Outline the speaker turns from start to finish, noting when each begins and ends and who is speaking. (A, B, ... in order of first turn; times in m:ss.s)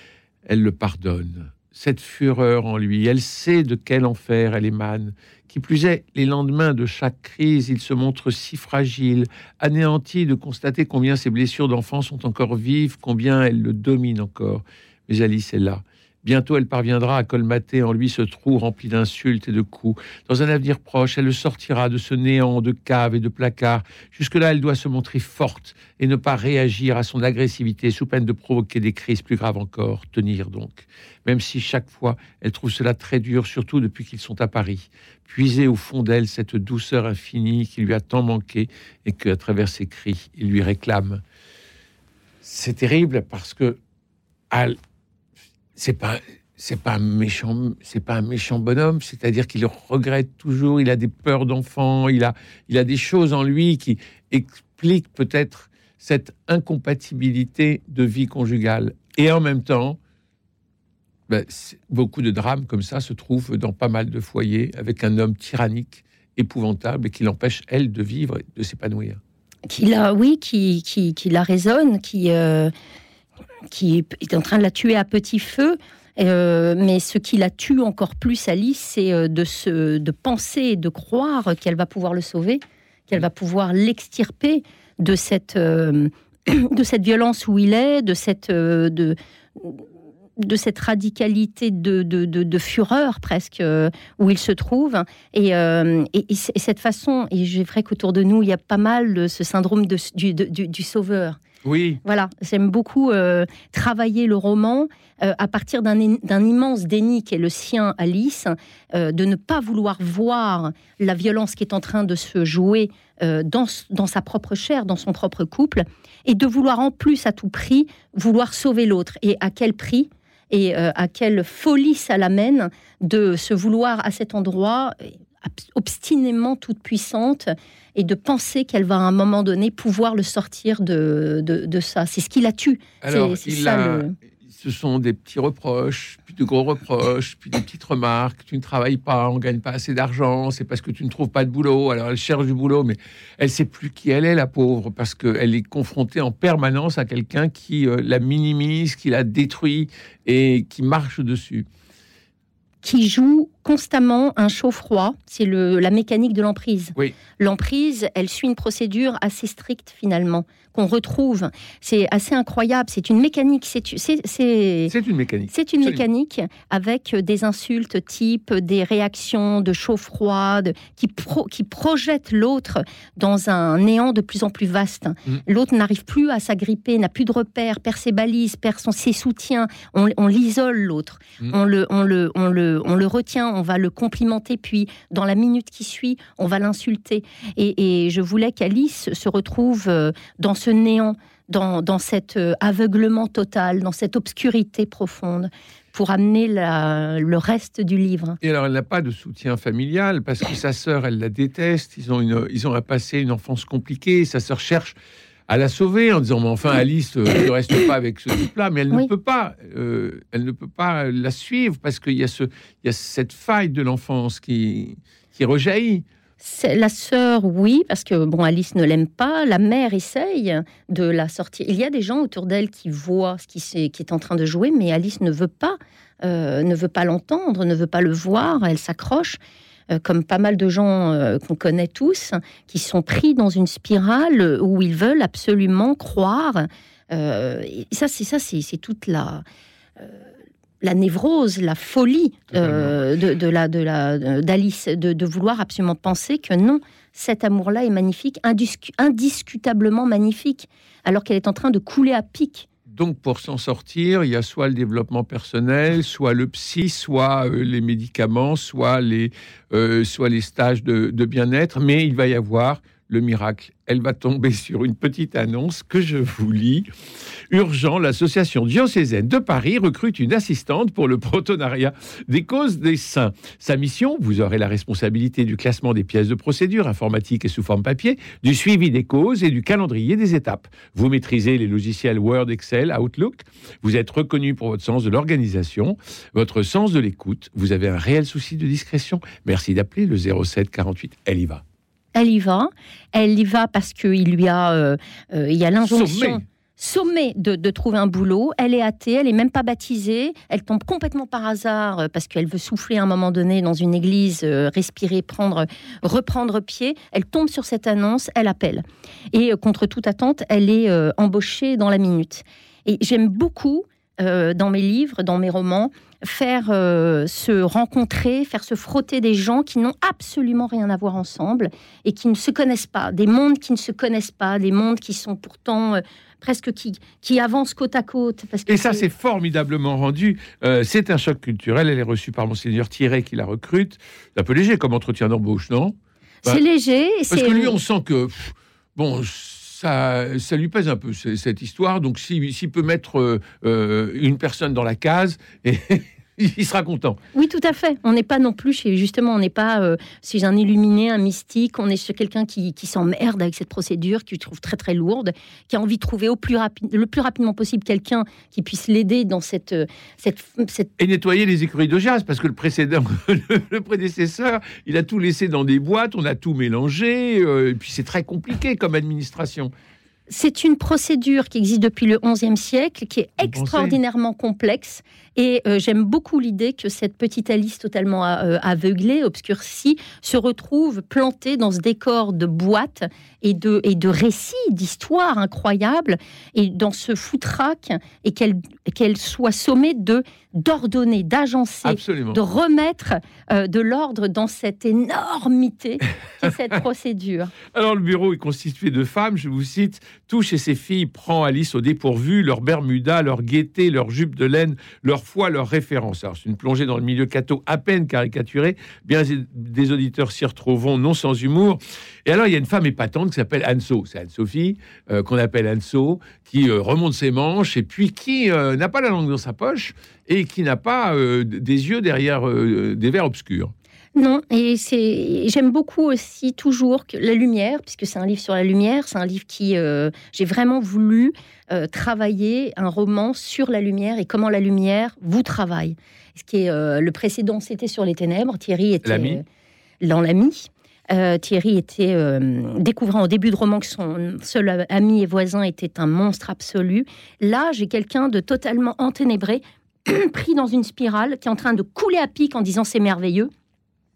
0:00.5-0:41.2 A
0:42.4-0:43.8 A
0:44.5-0:44.8 A
0:45.8-1:00.0 A
1:01.3-1:09.2 A
1:09.7-1:12.7 B
1:13.7-1:29.8 B
1:30.4-1:41.4 B
1:41.6-1:42.0 A
1:42.0-2:14.2 B
2:13.0-2:31.7 A
2:32.8-2:44.9 B
2:44.9-2:46.0 A
2:45.5-3:18.4 B
3:18.4-3:24.9 A
3:25.5-3:36.0 A
3:36.4-3:49.4 B
3:49.9-3:59.4 B
4:00.8-4:12.7 B
4:02.6-4:02.9 A
4:12.9-4:26.9 A
4:27.5-4:51.6 A
4:52.2-5:29.1 B
4:55.9-4:56.4 A
5:28.7-5:36.6 A
5:36.4-5:37.8 B
5:37.3-5:47.2 A
5:47.3-6:00.9 B
6:01.0-6:09.7 A
6:10.3-6:37.5 B
6:13.4-6:14.0 A
6:31.8-6:32.4 A
6:37.7-7:03.7 A
7:04.2-7:19.4 B
7:19.0-7:19.4 A
7:20.0-7:33.5 B